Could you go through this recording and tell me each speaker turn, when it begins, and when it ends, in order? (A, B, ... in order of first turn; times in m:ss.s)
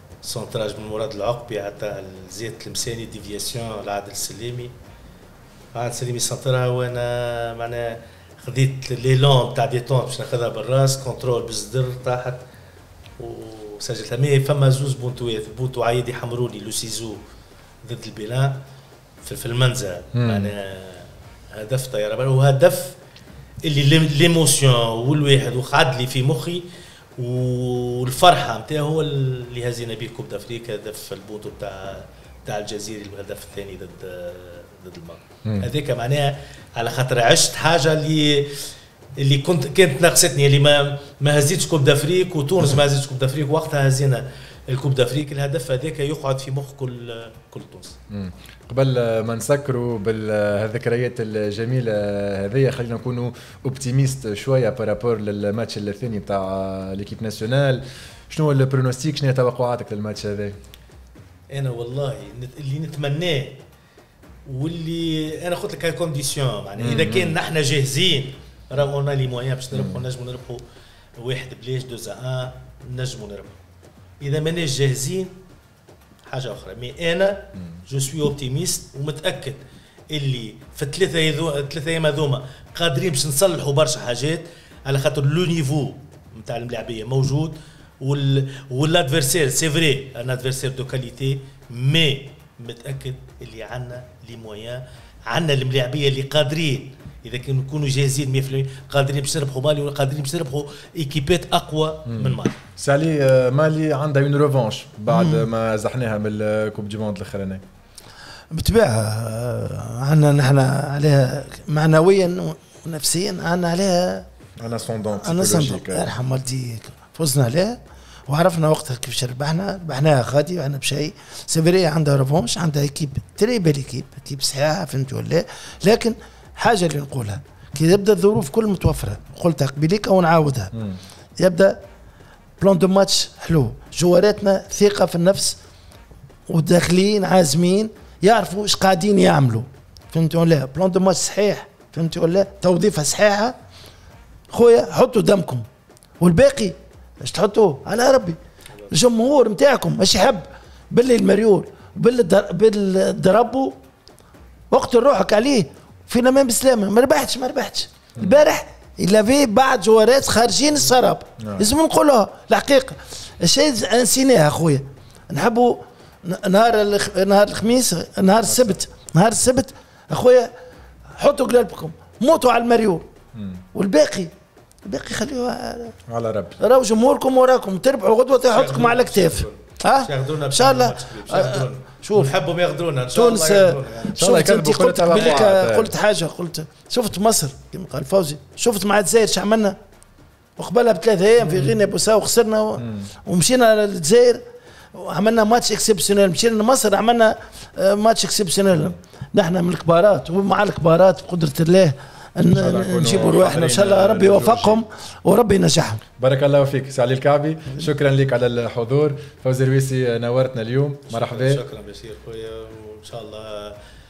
0:00.2-0:04.7 A
0:05.7-0:12.4 A
0:13.2-0:17.2 A
0:17.8-0:18.6 A
0:19.2-0:23.0 A
0:20.1-0:20.5 B
0:23.6-0:38.6 A
0:39.2-0:48.0 A
0:48.1-1:00.6 B
1:01.5-1:03.6 A
1:04.4-1:10.6 A
1:06.8-1:07.4 B
1:09.7-1:10.0 B
1:11.2-1:13.6 A
1:14.2-1:15.4 A
1:16.2-1:19.6 A
1:20.1-1:42.6 A
1:42.1-1:47.6 B
1:45.1-1:45.4 C
1:48.5-1:54.3 C
1:54.6-1:56.0 B
1:55.2-2:10.7 C
2:11.4-2:11.8 C
2:12.6-2:15.6 C
2:16.5-2:23.6 C
2:24.5-2:25.6 C
2:26.2-2:28.4 C
2:28.9-2:33.8 C
2:34.7-2:50.5 C
2:48.5-2:48.8 B
2:51.2-2:53.0 C
2:53.3-2:53.6 B
2:53.7-2:54.3 C
2:54.8-2:55.9 C
2:56.1-2:56.6 B
2:56.6-3:02.3 C
2:58.4-3:04.2 A
3:03.1-3:09.8 C
3:04.2-3:05.9 B
3:05.1-3:05.5 A
3:10.6-3:14.4 C
3:12.8-3:13.1 B
3:14.9-3:26.0 C
3:22.5-3:24.8 B
3:26.2-3:31.6 B
3:31.1-3:33.8 A